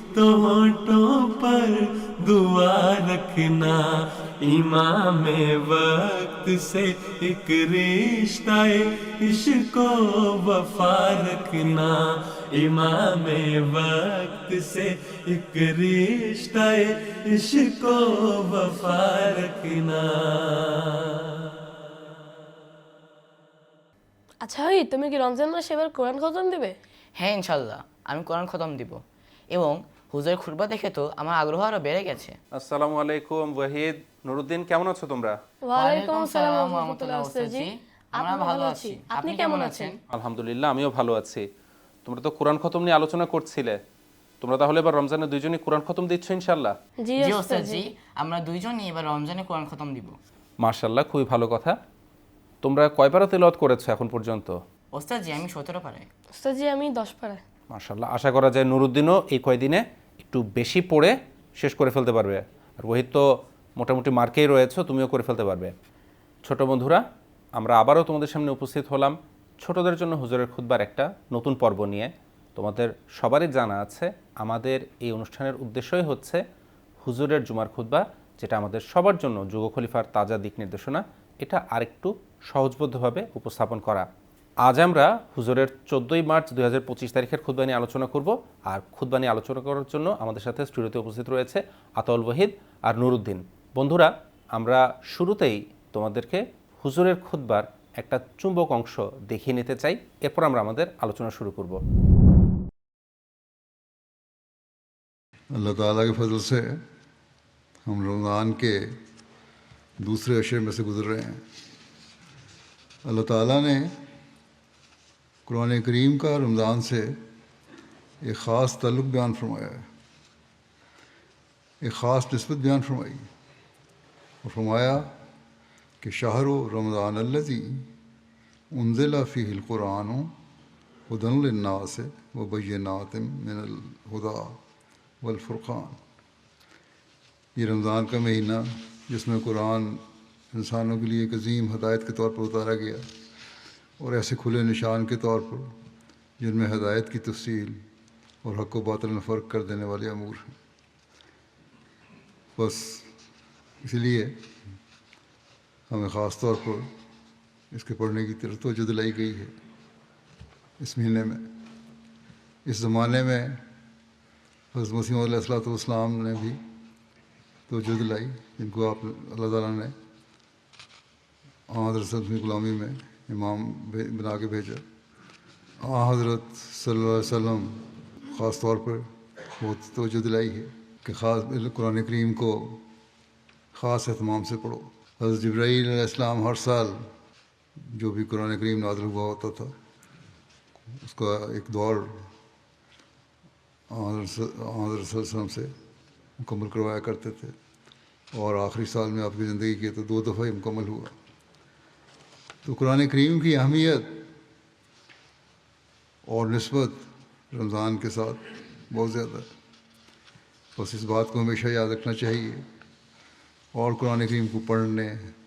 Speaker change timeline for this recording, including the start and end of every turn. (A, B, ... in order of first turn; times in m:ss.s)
0:00.1-0:03.8 A
0:04.4-0:21.0 A
0:24.4-0:26.8 B
0:27.2-0:29.0 C
0:29.5-0:32.4 C
0:32.6-0:35.4 D
0:35.7-0:37.6 B
0:35.7-0:40.0 C
0:38.2-0:39.9 B
0:40.1-0:41.4 D
0:42.0-0:43.8 D
0:44.4-0:46.8 D
0:47.0-0:47.8 B
0:47.2-0:50.2 C
0:50.6-0:51.8 D
0:52.6-0:54.6 D
0:54.9-0:56.1 C
0:56.4-0:57.4 B
0:57.7-1:03.2 D
1:03.8-1:05.7 D
1:06.4-1:07.0 D
1:07.6-1:16.4 D
1:17.0-1:24.1 D
1:24.6-1:41.8 D
1:45.6-1:46.8 E
1:47.9-1:48.8 E
1:50.0-1:51.4 E
1:53.0-1:53.9 E
1:55.5-1:57.1 E
1:58.2-1:59.8 E
2:01.8-2:03.2 E
2:04.4-2:05.1 E
2:06.0-2:07.8 E
2:08.7-2:10.3 E
2:11.1-2:14.6 E
2:15.2-2:16.0 E
2:17.6-2:20.0 E
2:20.5-2:23.0 E
2:24.0-2:25.6 E
2:26.4-2:27.8 E
2:28.4-2:30.5 E
2:32.6-2:33.1 E
2:33.8-2:34.3 E
2:35.9-2:36.8 E
2:37.7-2:39.5 E
2:40.8-2:41.4 E
2:42.6-2:43.6 E
2:44.7-2:46.6 E
2:47.7-2:49.9 E
2:51.7-2:54.8 E
2:55.8-2:57.7 E
2:58.3-2:59.0 E
2:59.6-3:02.8 E
3:03.7-3:07.0 E
3:07.9-3:09.7 E
3:11.0-3:12.1 E
3:13.9-3:15.7 E
3:16.4-3:17.5 E
3:18.3-3:21.1 E
3:22.6-3:24.2 E
3:26.3-3:29.4 E
3:30.8-3:32.6 E
3:33.8-3:35.1 E